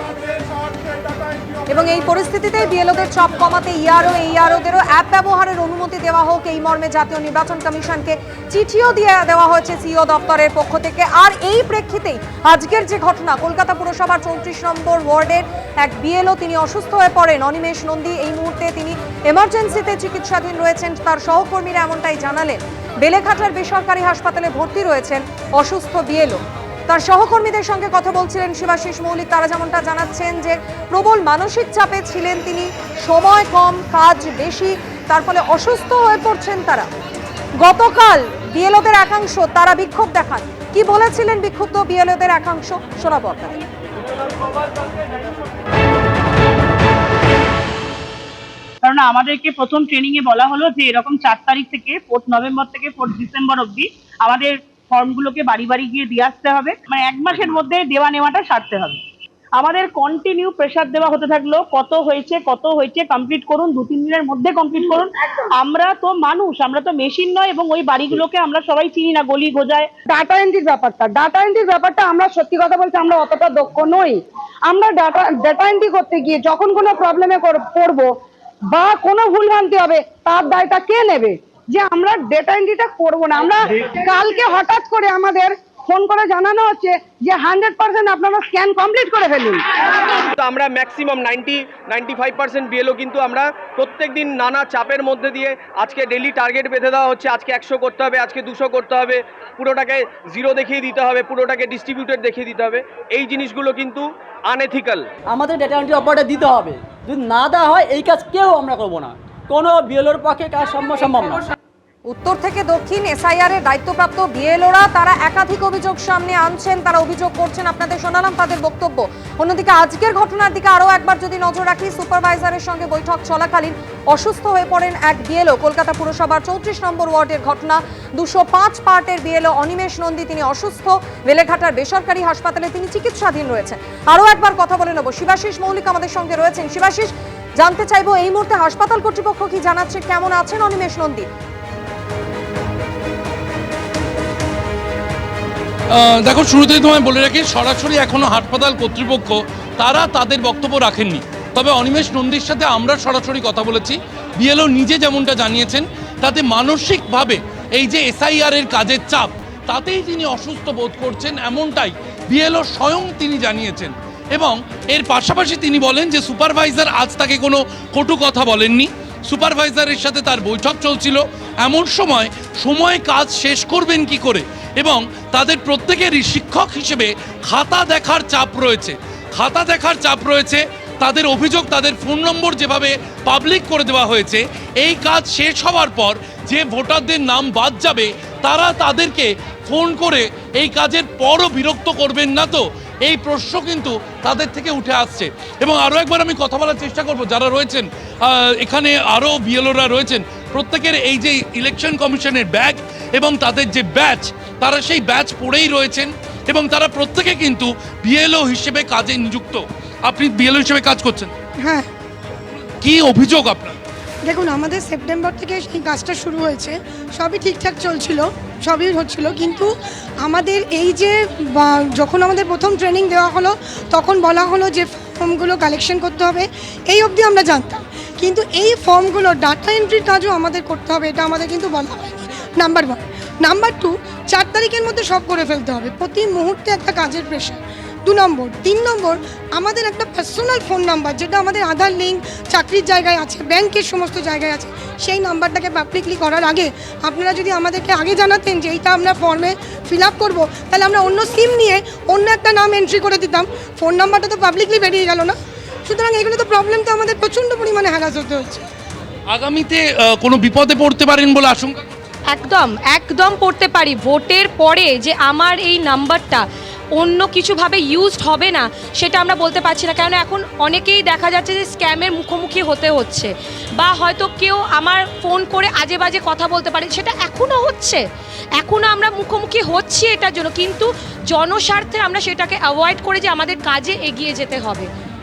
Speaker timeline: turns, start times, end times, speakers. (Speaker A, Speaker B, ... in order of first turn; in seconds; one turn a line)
Speaker A: 1.7-36.9
Speaker A: 37.6-43.6
Speaker B: 48.8-59.0
Speaker B: 59.6-69.9
Speaker C: 70.1-74.2
Speaker C: 74.7-78.1
Speaker C: 78.7-89.6
Speaker D: 90.4-105.0
Speaker E: 105.3-111.5
Speaker A: 112.1-141.3
Speaker F: 145.9-211.3
Speaker G: 211.6-211.9
Speaker F: 212.8-213.8
Speaker G: 214.2-255.3
Speaker G: 255.9-258.6
Speaker F: 259.3-261.8
Speaker H: 262.3-278.0
Speaker H: 278.6-284.9